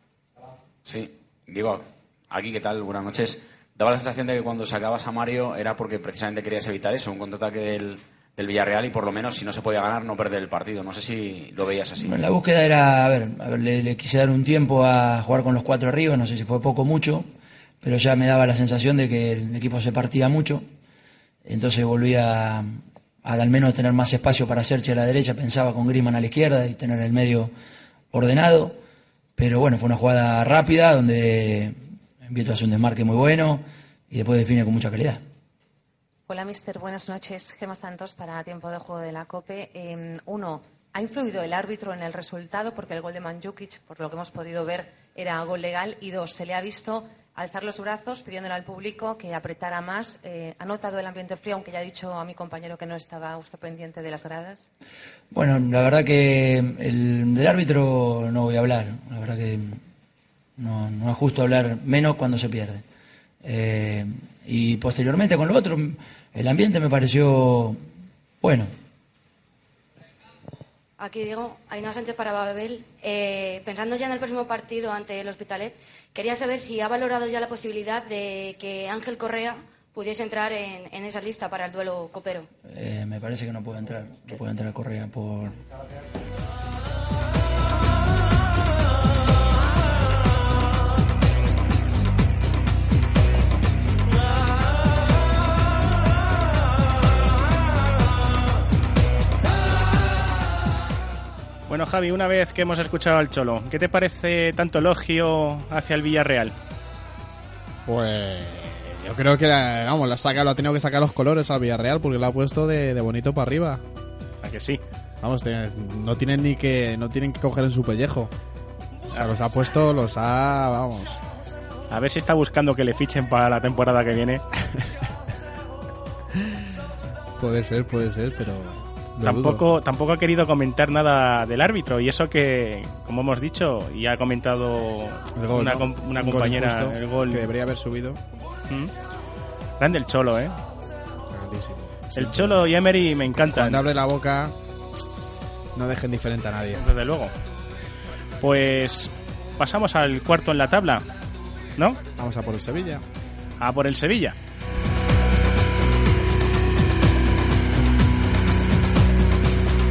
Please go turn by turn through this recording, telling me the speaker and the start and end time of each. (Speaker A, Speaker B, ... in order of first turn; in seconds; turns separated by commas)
Speaker A: 0.8-12.2, Speaker B: 11.9-17.3, Speaker B: 17.8-20.6, Speaker B: 21.4-27.5, Speaker B: 28.1-28.8, Speaker B: 29.4-35.2, Speaker C: 36.3-54.7, Speaker B: 55.3-59.8, Speaker B: 60.6-62.8, Speaker B: 63.4-67.8, Speaker B: 68.4-68.7, Speaker D: 71.0-82.5, Speaker B: 82.7-85.6, Speaker E: 101.7-106.5, Speaker F: 107.8-113.8, Speaker E: 114.4-114.8, Speaker F: 115.2-118.3, Speaker F: 119.1-121.2, Speaker E: 121.9-124.4, Speaker F: 127.4-129.7, Speaker E: 129.2-137.4, Speaker F: 135.3-138.2, Speaker E: 139.8-140.5, Speaker F: 141.3-142.7, Speaker E: 142.2-143.8, Speaker F: 143.4-144.6, Speaker F: 145.7-146.8, Speaker E: 146.7-147.3, Speaker E: 148.4-151.1, Speaker F: 152.2-153.0, Speaker E: 153.6-154.3